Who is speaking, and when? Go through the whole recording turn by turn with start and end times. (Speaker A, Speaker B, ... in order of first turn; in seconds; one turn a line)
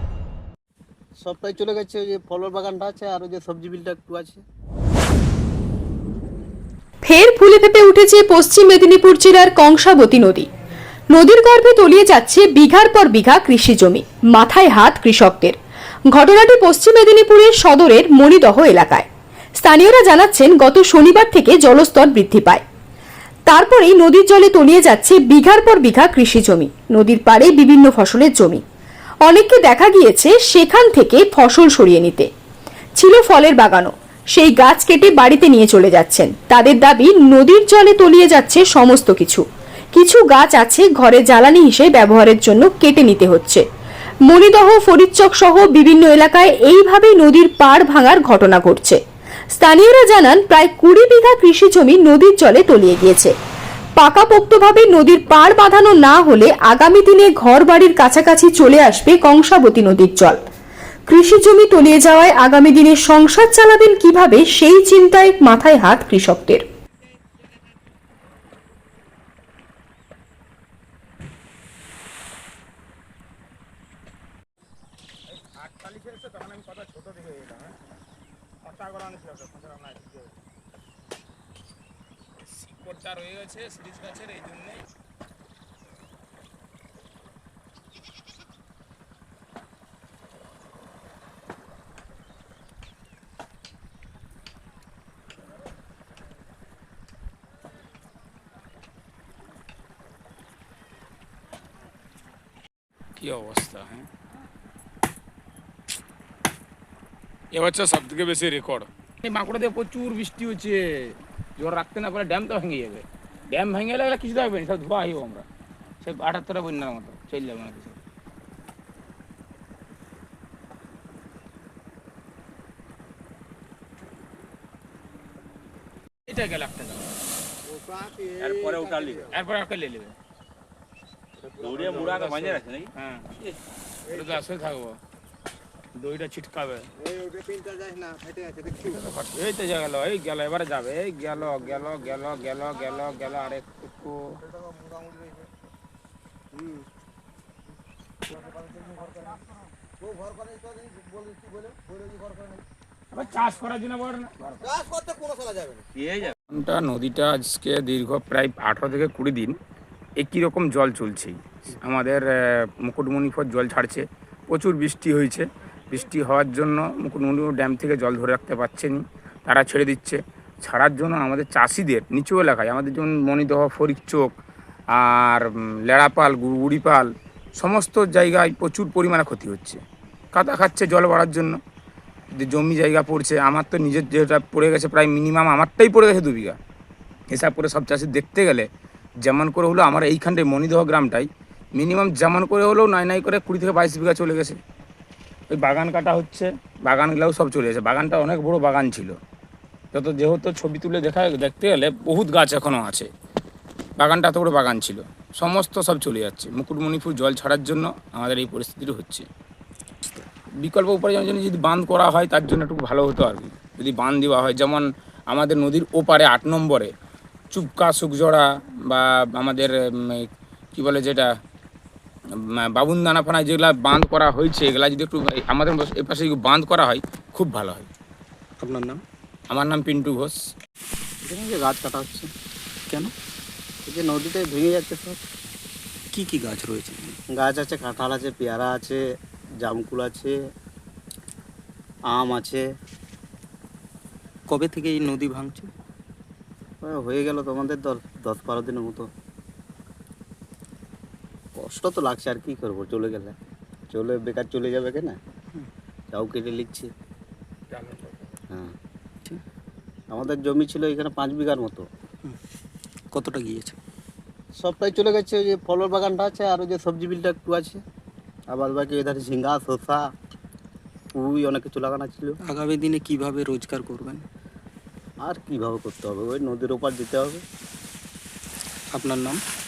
Speaker A: 1.2-4.4
Speaker B: 7.0-10.5
Speaker B: 11.1-15.6
Speaker B: 16.1-19.1
Speaker B: 19.6-22.6
Speaker B: 23.5-28.6
Speaker B: 29.2-32.3
Speaker B: 33.0-43.6
Speaker B: 44.3-49.0
Speaker B: 49.5-53.3
Speaker B: 54.0-60.4
Speaker B: 61.1-66.6
Speaker C: 75.4-77.8
Speaker C: 78.6-80.3
Speaker C: 82.4-84.8
Speaker C: 103.2-104.1
Speaker C: 107.5-115.5
Speaker C: 116.0-118.0
Speaker C: 126.3-127.0
Speaker D: 128.4-129.2
Speaker C: 129.3-130.1
Speaker D: 131.6-132.9
Speaker C: 131.8-135.0
Speaker C: 135.9-136.9
Speaker C: 138.6-144.3
Speaker C: 153.1-154.8
Speaker D: 155.9-156.3
Speaker C: 156.5-159.6
Speaker C: 160.2-174.3
Speaker C: 174.9-179.8
Speaker C: 180.3-181.6
Speaker C: 182.4-186.6
Speaker C: 187.3-188.7
Speaker C: 189.2-194.6
Speaker C: 195.5-199.2
Speaker C: 199.9-203.1
Speaker C: 204.0-209.2
Speaker C: 210.6-216.9
Speaker C: 217.5-221.3
Speaker C: 222.6-227.9
Speaker E: 228.6-229.0
Speaker C: 229.5-230.4
Speaker A: 231.2-232.3
Speaker A: 233.8-235.2
Speaker E: 236.1-237.2
Speaker A: 237.3-239.0
Speaker A: 239.6-240.3
Speaker A: 242.1-242.6
Speaker E: 244.5-245.7
Speaker A: 246.8-249.1
Speaker A: 251.6-253.4
Speaker A: 253.9-255.2
Speaker A: 256.1-256.9
Speaker C: 257.7-258.4
Speaker A: 260.1-261.9
Speaker E: 263.1-263.8
Speaker A: 264.6-267.8
Speaker A: 268.5-270.1
Speaker A: 271.1-272.4
Speaker E: 272.4-274.2
Speaker A: 275.2-277.4
Speaker E: 278.9-279.4